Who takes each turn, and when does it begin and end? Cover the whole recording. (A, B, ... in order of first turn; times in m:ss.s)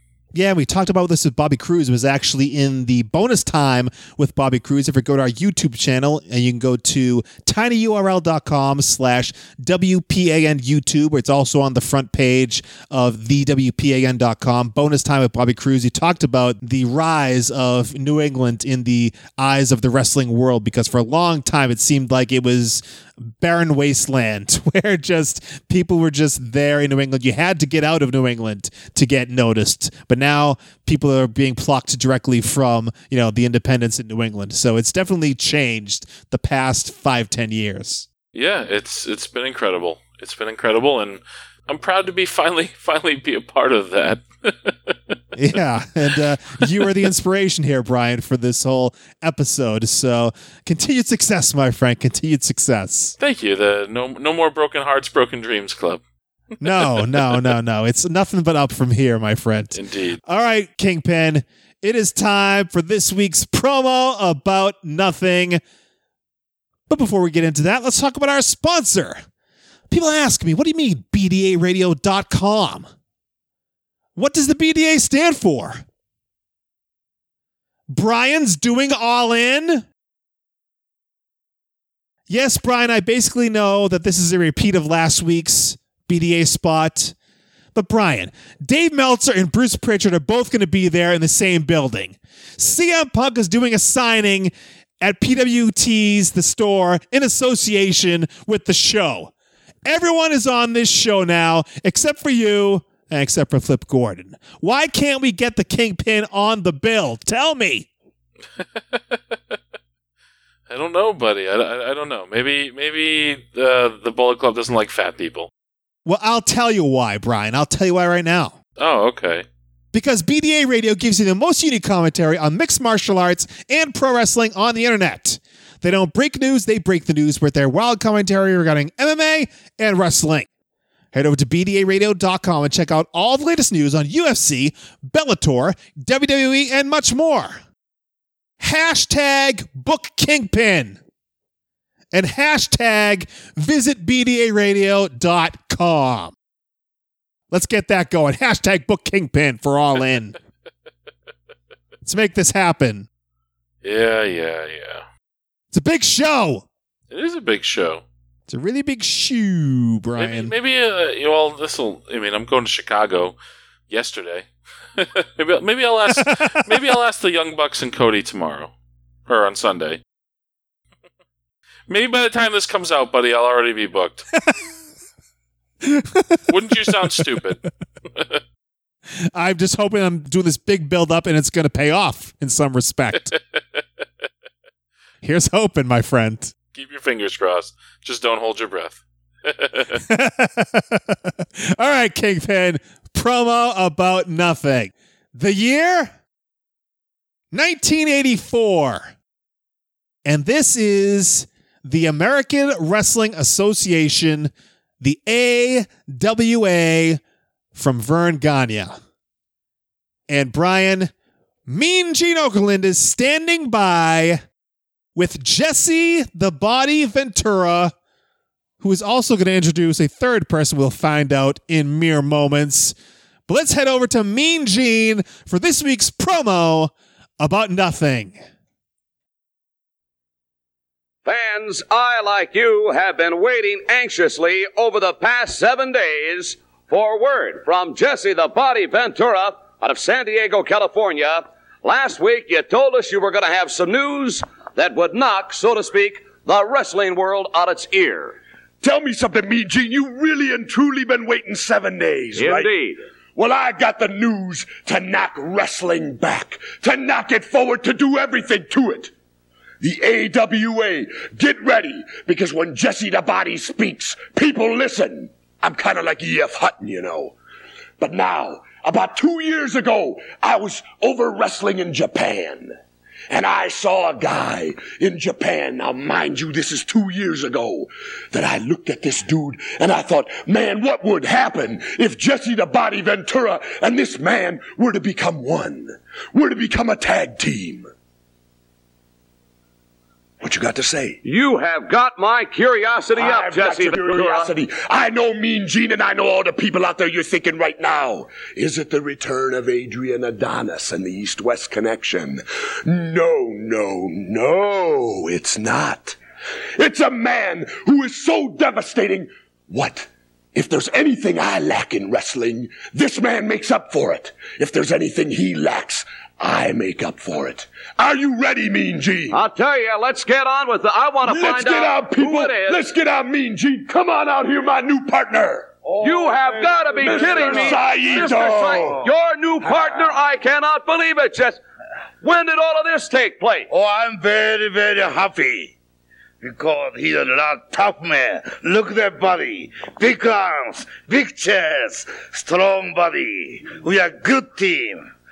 0:00.3-0:38.1 A
0:38.3-0:45.2 B
0:45.4-0:53.2 A
0:46.8-0:47.1 B
0:53.2-0:56.0 B
0:56.6-1:05.6 A
0:56.7-0:57.5 B
0:59.8-1:00.2 B
1:06.9-1:09.2 A
1:09.9-1:12.9 A
1:14.2-1:15.8 A
1:17.9-1:19.9 A
1:22.3-1:27.1 A
1:27.8-1:39.3 A
1:39.9-1:47.9 A
1:48.6-1:49.6 B
1:50.7-1:55.5 B
1:56.0-1:58.6 A
1:58.8-1:59.5 B
1:59.9-2:10.5 A
2:11.1-2:17.6 A
2:18.6-2:21.0 A
2:22.1-2:26.4 A
2:27.5-2:30.4 A
2:32.0-2:33.1 A
2:33.8-2:35.1 B
2:35.7-2:36.6 A
2:37.1-2:38.0 B
2:38.5-2:40.5 A
2:40.2-2:43.4 B
2:43.9-2:48.7 B
2:46.2-2:46.7 A
2:49.3-2:50.0 B
2:51.9-2:54.3 B
2:55.8-2:57.3 A
2:56.5-2:57.6 B
2:58.1-2:58.4 B
2:59.2-3:03.3 A
3:03.3-3:03.8 B
3:05.2-3:06.5 A
3:06.7-3:10.0 B
3:09.9-3:16.1 A
3:17.5-3:19.1 A
3:20.3-3:27.2 A
3:27.8-3:29.0 A
3:30.3-3:31.1 A
3:31.7-3:34.4 A
3:35.1-3:37.9 A
3:38.8-3:43.0 A
3:43.5-3:48.4 A
3:51.2-4:08.4 C
4:08.8-4:12.7 D
4:12.3-4:13.0 C
4:13.4-4:19.1 D
4:19.8-4:27.4 D
4:28.0-4:32.8 D
4:33.3-4:47.9 D
4:50.4-4:51.2 D
4:51.2-4:54.5 C
4:53.1-5:06.2 D
5:06.8-5:19.4 D
5:19.3-5:22.8 C
5:21.2-5:25.7 D
5:25.8-5:29.1 E
5:26.0-5:31.6 C
5:27.2-5:29.0 D
5:29.6-5:30.1 E
5:32.2-5:33.7 C
5:33.7-5:35.8 E
5:36.4-5:45.1 E